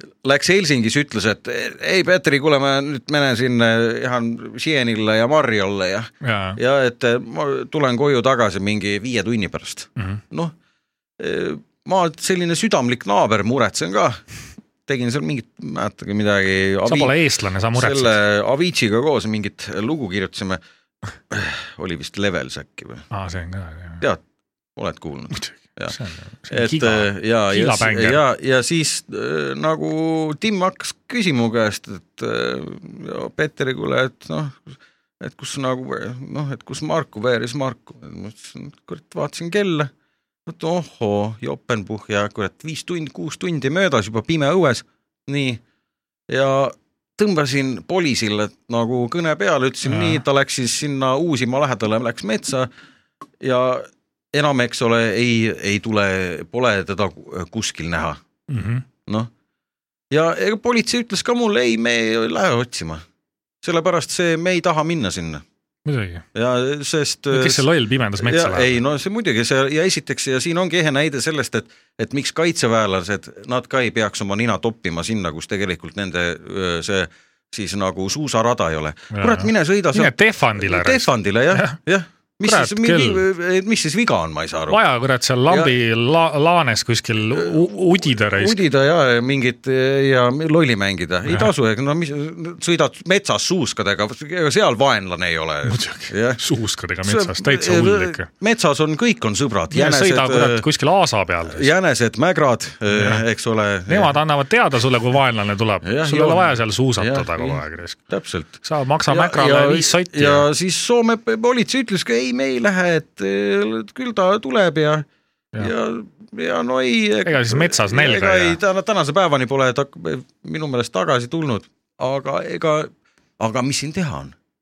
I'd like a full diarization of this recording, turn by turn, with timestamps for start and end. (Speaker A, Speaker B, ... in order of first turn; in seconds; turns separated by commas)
Speaker A: 0.2-10.5, Speaker B: 6.2-6.6, Speaker A: 11.2-14.2, Speaker A: 14.9-17.1, Speaker B: 16.9-18.1, Speaker A: 17.7-20.6, Speaker A: 21.3-23.1, Speaker B: 23.1-24.0, Speaker A: 24.8-25.9, Speaker B: 25.3-28.2, Speaker A: 26.5-39.9, Speaker A: 40.5-45.6, Speaker A: 46.3-52.7, Speaker B: 49.8-50.2, Speaker A: 53.4-58.2, Speaker B: 58.5-58.8, Speaker A: 60.1-63.0, Speaker A: 63.6-65.4, Speaker B: 65.8-66.2, Speaker A: 66.3-67.6, Speaker B: 67.3-68.8, Speaker A: 68.2-84.8, Speaker B: 79.1-81.8, Speaker B: 82.4-83.2, Speaker B: 84.7-88.6, Speaker A: 88.2-96.4, Speaker B: 95.7-98.3, Speaker A: 97.0-100.6, Speaker B: 99.7-101.7, Speaker A: 101.5-104.1, Speaker B: 102.9-103.2, Speaker B: 103.9-108.0, Speaker A: 105.8-115.0, Speaker B: 108.6-110.5, Speaker A: 115.6-124.3, Speaker B: 117.2-118.6